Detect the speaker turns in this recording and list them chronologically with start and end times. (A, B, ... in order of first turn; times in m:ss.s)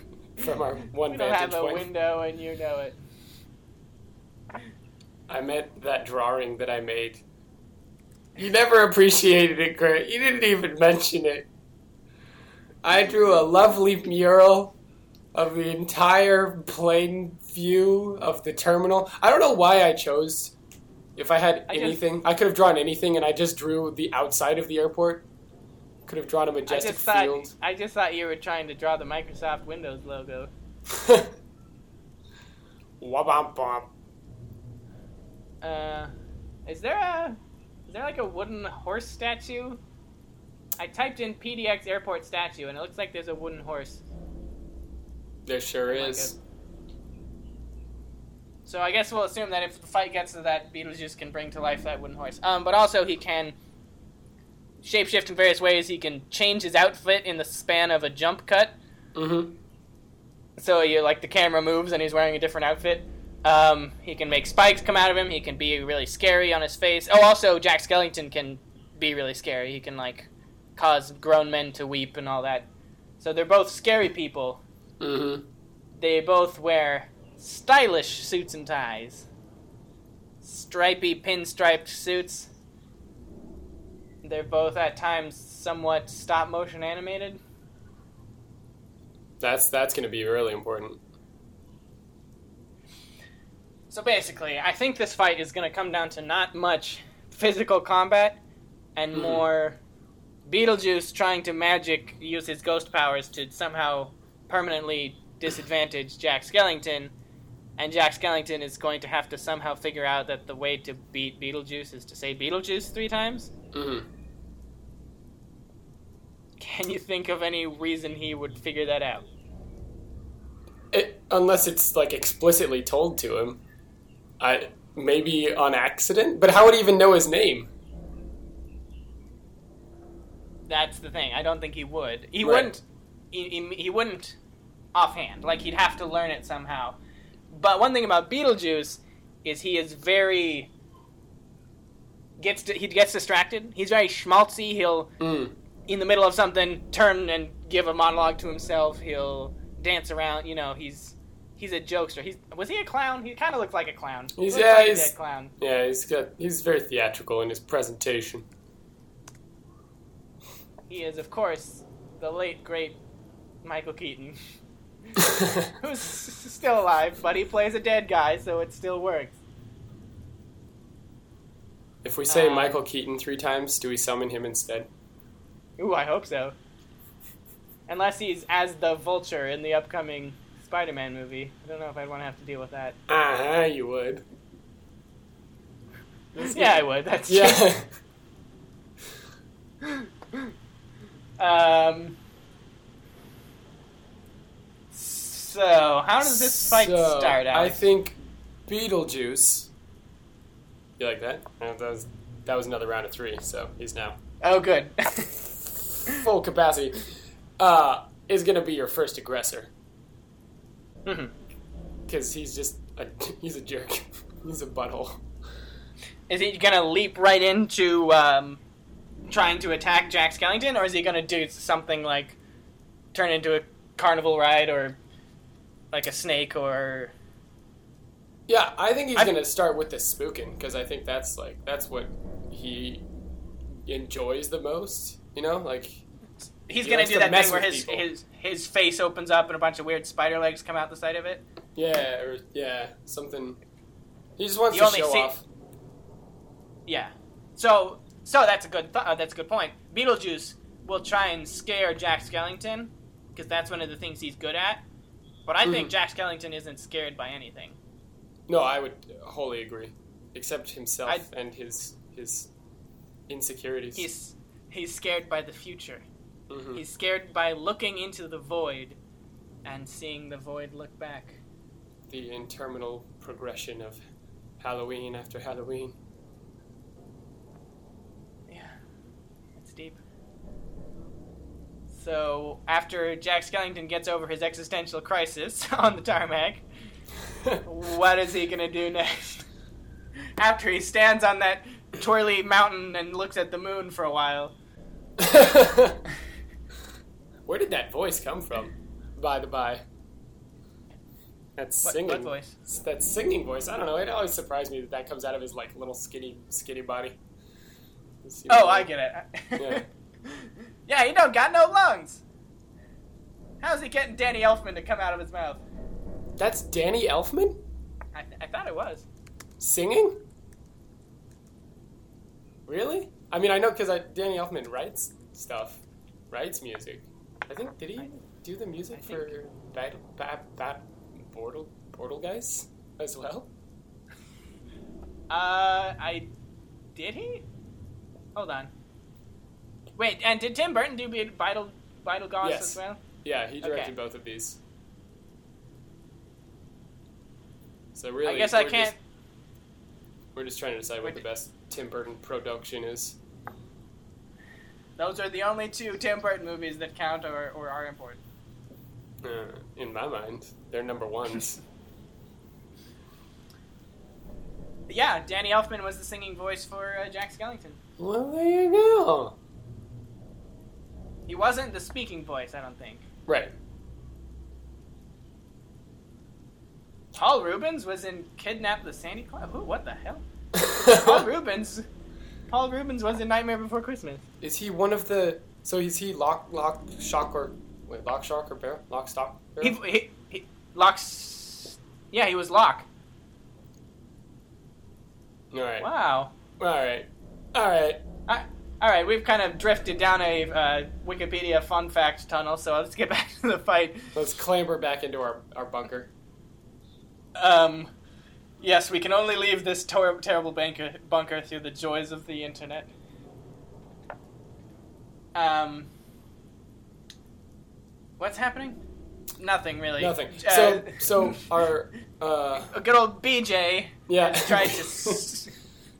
0:00.4-0:01.9 A
0:01.1-0:03.0 B
0:05.3-0:07.2 A
0:08.4-0:11.5 A
0:12.8-0:14.8 A
0:15.3-0:20.5 A
0:21.2-0:25.2 A
0:21.7-0:22.0 B
0:26.0-0:27.5 A
0:26.7-0:30.5 B
0:30.9-0:31.3 A
0:33.0-0:33.9 A
0:35.6-0:36.1 B
0:36.6-0:39.8 B
0:40.8-0:44.0 B
0:45.4-0:46.4 A
0:45.9-0:46.4 B
0:48.6-0:53.6 B
0:54.8-0:58.8 B
0:59.1-0:59.6 A
1:00.6-1:12.7 B
1:13.2-1:14.6 B
1:15.0-1:15.4 A
1:16.0-1:19.3 B
1:20.4-1:22.5 B
1:24.2-1:27.4 B
1:29.4-1:31.0 A
1:33.9-1:38.4 B
1:39.0-1:39.8 B
1:39.1-1:39.4 A
1:40.5-1:47.1 B
1:47.8-1:53.5 B
1:53.7-1:54.1 A
1:56.6-1:59.2 B
2:00.9-2:03.6 A
2:04.4-2:07.7 A
2:10.7-2:14.4 B
2:12.4-2:12.7 A
2:14.9-2:17.0 B
2:17.5-2:20.7 B
2:22.4-2:25.1 B
2:25.2-2:25.5 A
2:25.9-2:35.5 B
2:34.4-2:38.4 A
2:40.9-2:43.0 B
2:43.6-2:44.4 B
2:45.2-2:49.4 B
2:45.4-2:45.7 A
2:52.0-2:54.9 A
2:52.3-2:52.8 B
2:55.8-2:56.5 B
2:57.9-3:03.0 B
3:03.1-3:04.2 A
3:06.4-3:07.9 A
3:06.4-3:07.7 B
3:11.4-3:12.2 B
3:14.9-3:17.8 B
3:16.2-3:19.7 A
3:21.0-3:24.2 A
3:24.4-3:25.4 B
3:26.0-3:29.7 A
3:31.0-3:31.3 B
3:32.1-3:35.2 A
3:36.3-3:38.6 B
3:39.3-3:42.4 B
3:43.1-3:45.0 B
3:45.9-3:47.1 B
3:48.5-3:53.0 A
3:53.8-3:56.0 A
3:56.7-4:01.4 B
3:56.8-3:58.0 A
4:01.8-4:03.6 A
4:04.4-4:05.4 A
4:04.7-4:05.3 B
4:06.9-4:14.8 B
4:15.4-4:17.8 B
4:15.6-4:15.9 A
4:18.5-4:22.5 A
4:23.3-4:24.1 A
4:24.0-4:26.0 B
4:26.5-4:26.8 A
4:26.7-4:29.0 B
4:29.6-4:31.4 B
4:32.1-4:34.0 A
4:34.6-4:36.0 A
4:38.5-4:38.8 B
4:39.6-4:40.0 B
4:41.9-4:46.6 B
4:47.6-4:49.4 B
4:50.4-4:54.5 B
4:55.2-4:56.0 A
4:57.5-4:59.8 A
5:01.6-5:07.2 A
5:01.8-5:02.5 B
5:08.2-5:08.9 A
5:08.5-5:12.2 B
5:09.6-5:09.8 A
5:13.6-5:15.6 B
5:16.4-5:17.6 A
5:18.1-5:19.1 B
5:19.6-5:20.2 A
5:22.6-5:33.5 A
5:28.9-5:29.3 B
5:35.3-5:36.3 B
5:36.9-5:37.4 B
5:38.3-5:38.7 B
5:40.0-5:43.0 B
5:42.4-5:44.6 A
5:43.6-5:43.9 B
5:47.9-5:48.9 A
5:48.2-5:49.0 B
5:50.3-5:53.2 A
5:55.0-5:58.2 B
5:59.2-6:01.6 A
6:04.9-6:07.8 B
6:08.0-6:09.3 A
6:11.3-6:13.0 B
6:13.3-6:13.5 A
6:17.1-6:20.2 B
6:20.6-6:21.2 A
6:20.9-6:21.9 B
6:22.5-6:24.2 B
6:24.4-6:29.8 A
6:29.6-6:32.8 B
6:35.5-6:35.9 A
6:35.8-6:36.3 B
6:36.6-6:38.0 A
6:38.3-6:44.2 B
6:44.1-6:46.1 A
6:47.4-6:47.9 B
6:48.6-6:52.9 B
6:55.3-6:55.9 B
6:58.2-6:58.8 B
6:59.4-7:01.4 B
7:00.0-7:02.7 A
7:02.7-7:05.5 B
7:04.1-7:05.2 A